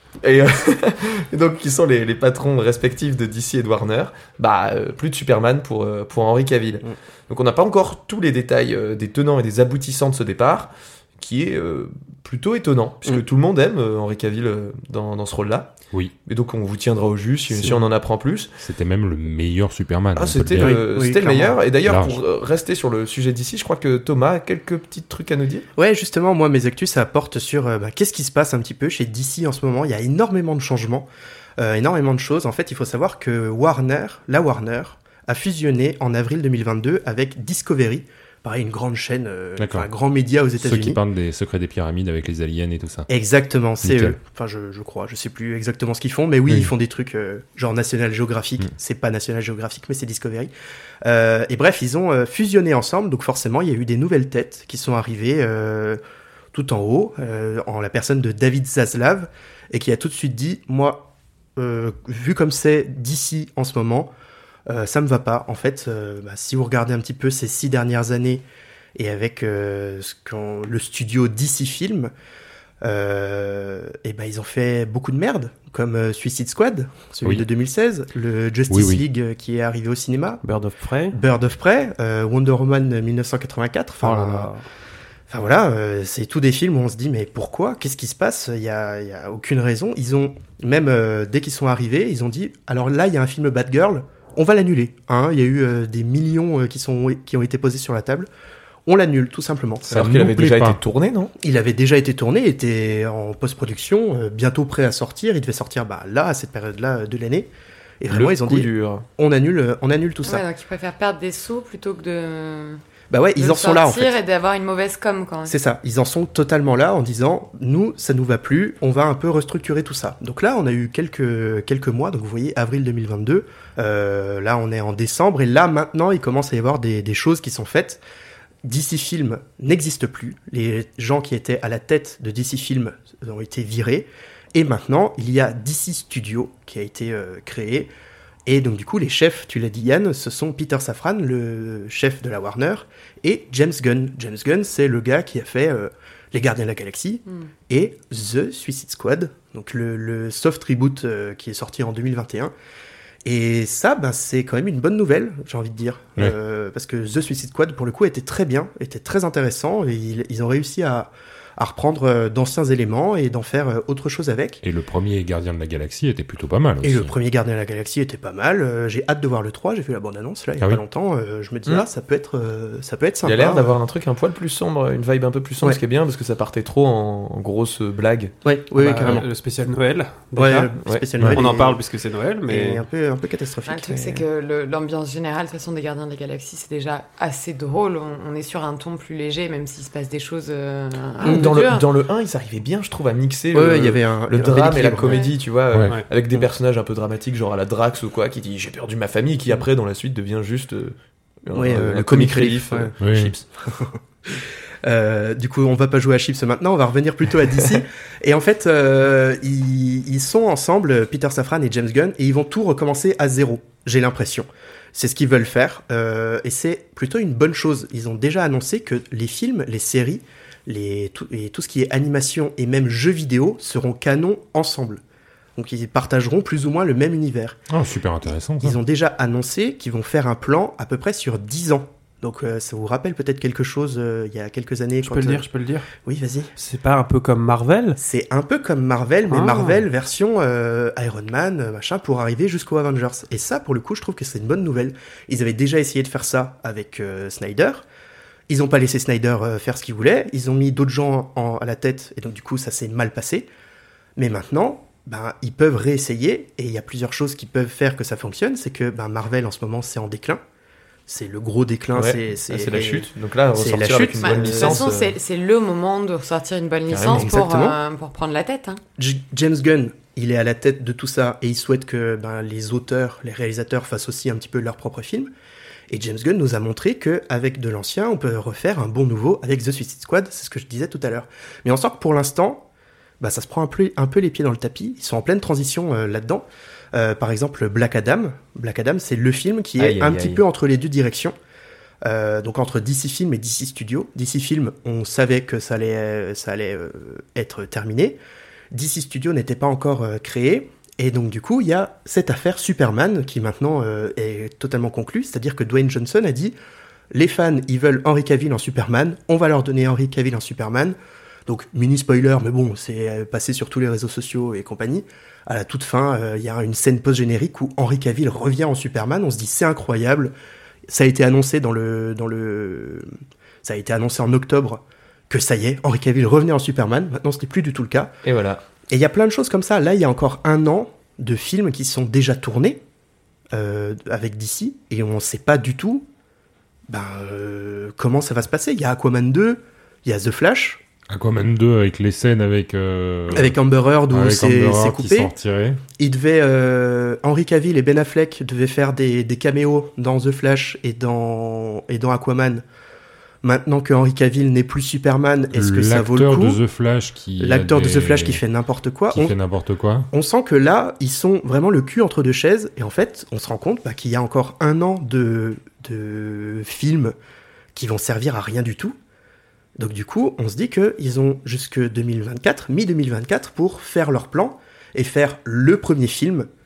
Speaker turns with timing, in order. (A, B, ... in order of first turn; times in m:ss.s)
0:00.2-0:18.6 A
0:17.5-0:17.8 B
0:18.6-0:21.2 C
0:20.1-0:25.7 A
0:20.6-0:21.6 B
0:21.8-0:22.2 C
0:25.8-0:41.0 B
0:39.6-0:39.9 C
0:40.6-0:43.1 C
0:43.1-0:50.5 B
0:43.8-0:44.2 C
0:51.0-0:56.0 B
0:56.5-1:04.1 B
1:04.7-1:08.4 B
1:09.0-1:12.1 B
1:12.8-1:20.4 B
1:18.7-1:19.0 C
1:20.4-1:21.2 D
1:21.1-1:24.5 B
1:24.0-1:24.6 D
1:25.3-1:38.3 B
1:38.8-1:40.0 B
1:39.9-1:41.3 A
1:39.9-1:40.8 C
1:41.4-1:50.4 B
1:48.1-1:49.0 A
1:50.2-1:52.8 E
1:53.1-1:54.2 B
1:53.4-1:55.6 E
1:55.5-2:08.0 B
2:08.6-2:17.9 B
2:18.4-2:32.5 B
2:33.2-2:44.6 B
2:44.6-2:47.1 C
2:46.8-2:53.7 B
2:53.2-2:58.4 A
2:58.4-2:59.3 B
2:58.8-3:00.7 D
3:00.4-3:01.8 B
3:01.3-3:02.8 D
3:02.5-3:04.2 B
3:03.7-3:11.8 E
3:11.2-3:11.5 B
3:11.2-3:23.3 A
3:13.5-3:15.3 B
3:15.0-3:15.3 E
3:15.7-3:16.0 C
3:21.5-3:45.0 B
3:23.0-3:23.3 C
3:45.6-3:47.6 B
3:47.7-3:48.8 C
3:48.6-3:56.5 B
3:55.0-3:55.9 D
3:56.6-3:58.0 D
3:58.0-4:07.8 B
3:59.3-3:59.8 D
4:08.5-4:13.5 B
4:14.2-4:20.4 B
4:21.1-4:24.9 B
4:21.9-4:25.1 A
4:24.2-4:28.8 E
4:26.9-4:27.3 A
4:27.0-4:27.8 B
4:29.0-4:35.3 B
4:35.9-4:42.6 B
4:43.2-4:51.3 B
4:49.8-4:50.4 A
4:52.0-4:58.2 B
4:58.7-5:06.5 B
5:07.1-5:10.9 B
5:11.5-5:20.3 B
5:20.9-5:23.1 B
5:23.6-5:28.2 B
5:28.2-5:28.6 A
5:28.9-5:32.8 B
5:33.5-5:36.1 B
5:36.9-5:40.8 B
5:41.1-5:43.6 C
5:43.3-5:45.3 B
5:44.1-5:45.8 C
5:46.0-5:52.6 B
5:53.4-5:56.6 B
5:55.5-5:58.4 C
5:57.4-5:59.4 B
5:59.1-6:00.1 C
6:00.1-6:07.1 B
6:07.7-6:09.0 B
6:09.8-6:16.5 B